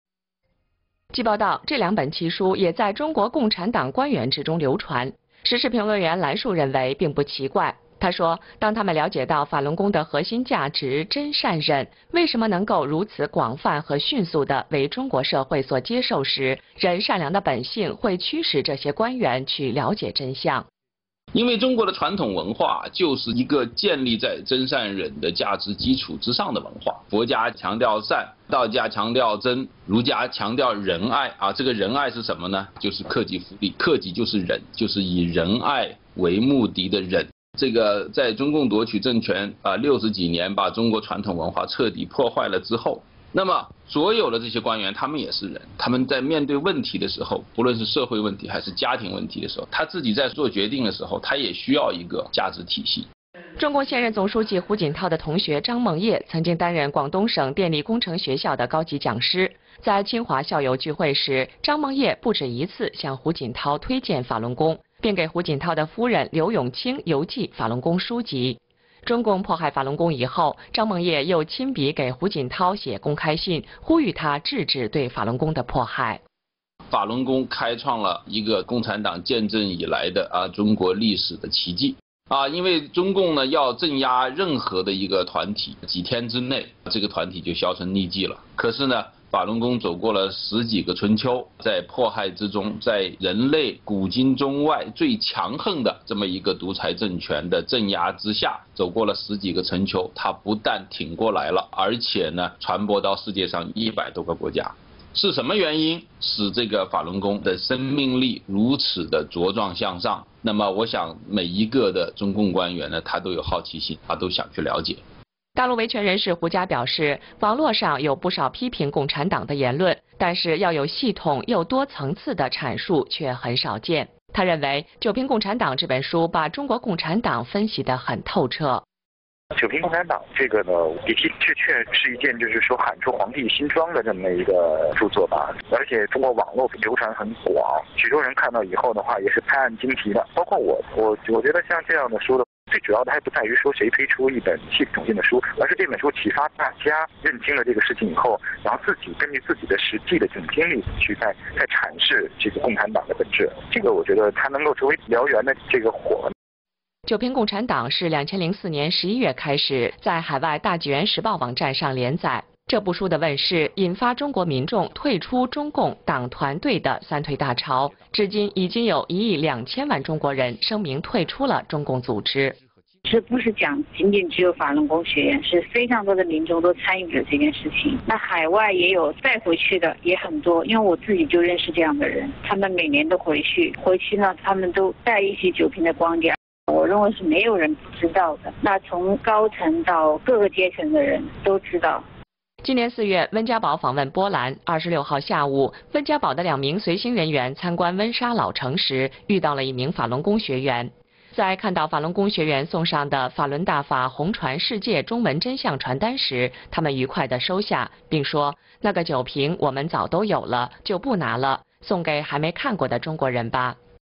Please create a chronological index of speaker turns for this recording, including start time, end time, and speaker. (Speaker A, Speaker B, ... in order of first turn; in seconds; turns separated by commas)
Speaker A: 1.1-20.7, Speaker B: 21.3-53.1, Speaker A: 53.6-76.2, Speaker B: 76.9-115.0, Speaker A: 115.6-128.8, Speaker C: 129.6-156.3, Speaker A: 157.1-172.6, Speaker D: 173.1-192.1, Speaker A: 192.6-213.8